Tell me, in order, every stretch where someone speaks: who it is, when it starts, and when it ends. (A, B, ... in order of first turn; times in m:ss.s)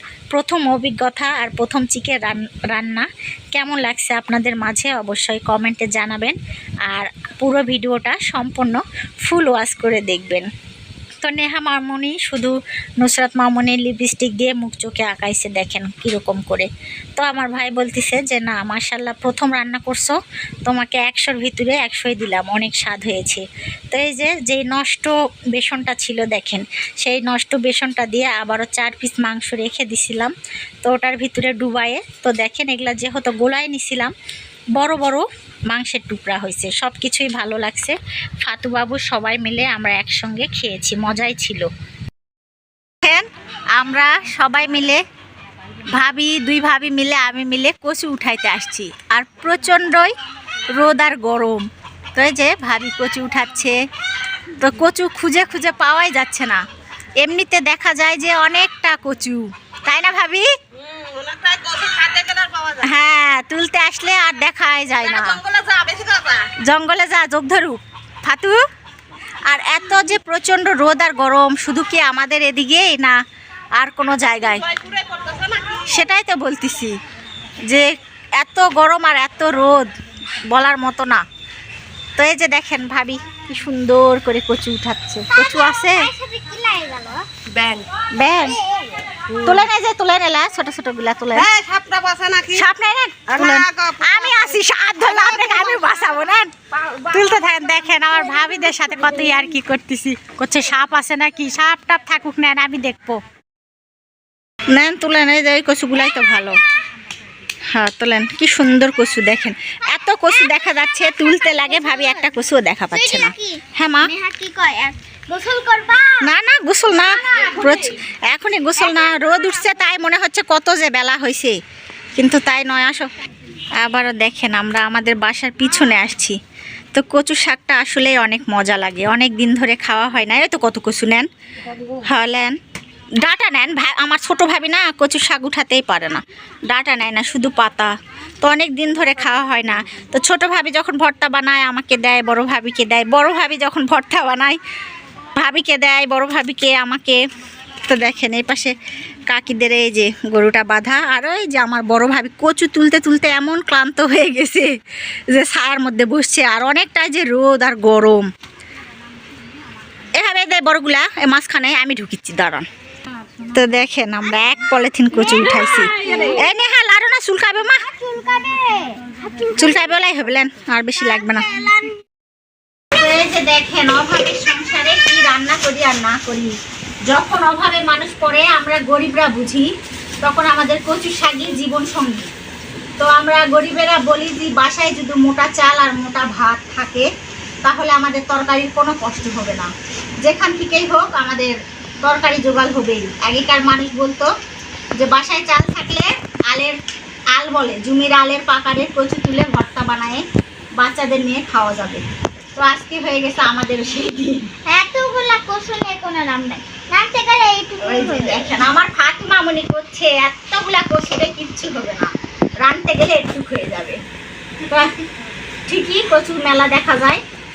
0:00.3-0:06.4 A
0:06.9-0:10.5 A
0:11.2-0:30.3 A
0:30.8-0:34.1 A
0:34.8-0:41.7 A
0:43.0-0:45.0 A
0:45.9-0:50.1 A
0:50.7-0:53.8 A
0:54.6-0:56.6 A
0:57.2-1:00.5 A
1:01.5-1:02.2 B
1:02.8-1:05.4 A
1:05.6-1:06.1 B
1:06.7-1:08.6 A
1:09.5-1:13.2 A
1:13.8-1:14.8 A
1:15.8-1:16.9 A
1:17.7-1:19.9 A
1:20.5-1:21.2 A
1:22.2-1:26.1 A
1:25.3-1:27.3 C
1:27.6-1:27.8 B
1:28.0-1:28.6 A
1:28.5-1:29.2 C
1:29.3-1:31.6 A
1:31.6-1:32.4 B
1:32.5-1:43.2 A
1:44.7-1:46.6 A
1:47.7-1:54.1 A
1:51.1-1:52.3 C
1:52.9-1:56.2 C
1:56.2-2:01.6 A
1:57.1-1:57.6 C
2:02.2-2:03.1 A
2:03.8-2:06.4 A
2:06.9-2:11.3 A
2:11.9-2:12.6 A
2:13.2-2:24.6 A
2:25.3-2:27.2 A
2:27.8-2:28.8 A
2:29.3-2:34.7 A
2:35.3-2:38.3 A
2:40.2-2:42.6 A
2:43.4-2:48.0 A
2:47.8-2:49.6 C
2:49.5-2:51.6 A
2:51.3-2:51.9 C
2:52.9-2:56.5 A
2:57.1-2:59.7 A
3:00.2-3:02.3 A
3:03.0-3:07.1 A
3:07.6-3:14.3 A
3:15.0-3:16.8 A
3:17.3-3:20.2 A
3:20.8-3:22.0 A
3:22.6-3:24.5 A
3:24.6-3:28.5 C
3:27.8-3:34.0 A
3:34.6-3:35.0 A
3:35.7-3:37.2 A